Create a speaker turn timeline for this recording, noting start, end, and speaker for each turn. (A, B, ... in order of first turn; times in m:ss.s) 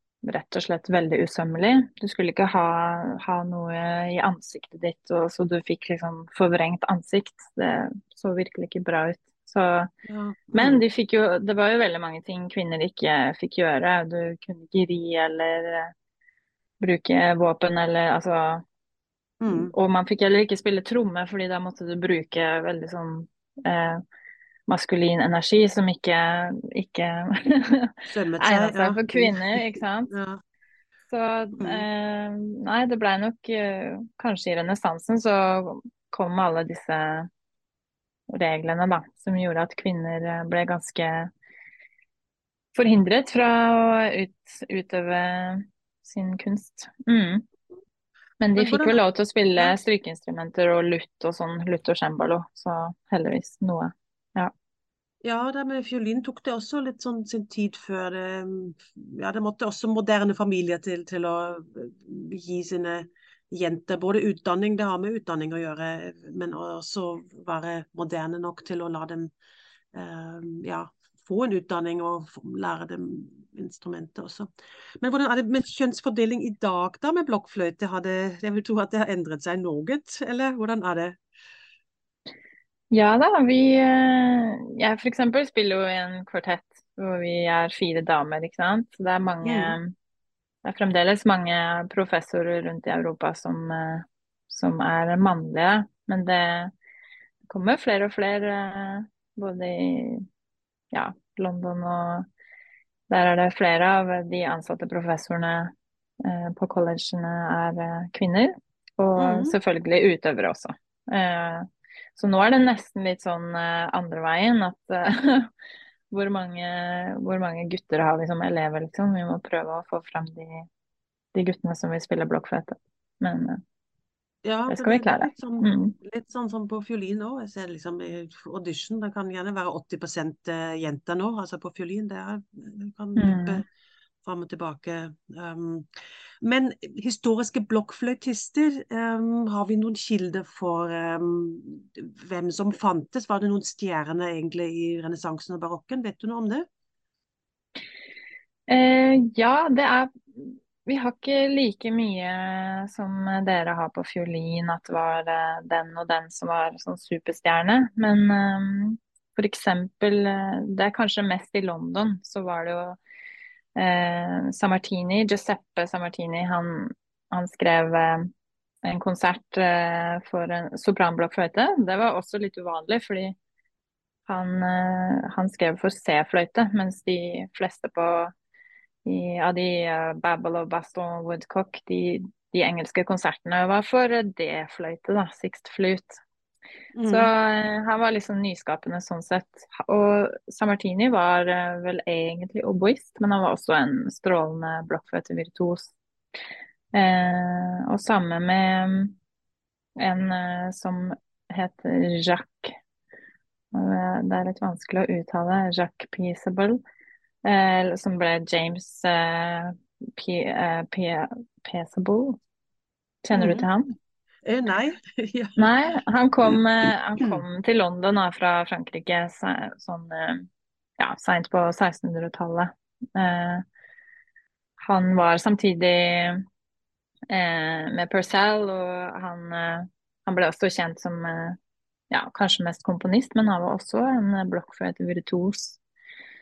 0:00.2-0:09.9 A
0:10.0-0:10.8 B
0:10.5-0:15.9 A
0:16.8-0:18.6 A
0:19.4-0:19.7 B
0:19.5-0:24.0 A
0:24.7-0:30.1 A
0:28.1-0:30.4 B
0:31.1-0:37.3 A
0:31.6-0:31.9 B
0:38.3-0:41.3 A
0:42.7-0:47.4 A
0:48.4-0:54.5 A
0:48.6-0:49.0 B
0:55.2-1:09.3 B
1:09.9-1:21.2 B
1:22.9-1:29.9 A
1:29.4-1:29.8 B
1:30.6-1:36.7 A
1:37.5-1:40.2 A
1:40.9-1:42.3 A
1:43.1-1:55.5 A
1:49.2-1:49.6 B
1:56.1-2:00.7 A
2:01.3-2:03.6 A
2:04.4-2:13.6 B
2:04.7-2:05.9 A
2:13.2-2:13.6 A
2:14.2-2:15.9 B
2:16.4-2:26.6 B
2:28.7-2:43.0 A
2:43.8-2:48.3 A
2:48.8-2:53.4 A
2:54.3-2:58.3 A
2:59.0-3:06.2 A
3:06.9-3:07.3 B
3:07.0-3:15.9 A
3:16.9-3:19.2 A
3:20.0-3:22.7 A
3:23.7-3:26.8 A
3:27.4-3:32.4 A
3:33.2-3:33.9 A
3:33.3-3:33.7 B
3:34.4-3:35.7 B
3:35.6-3:40.5 A
3:37.2-3:37.4 B
3:41.0-3:43.6 A
3:44.8-3:46.4 A
3:47.3-3:51.6 A
3:52.1-3:55.8 A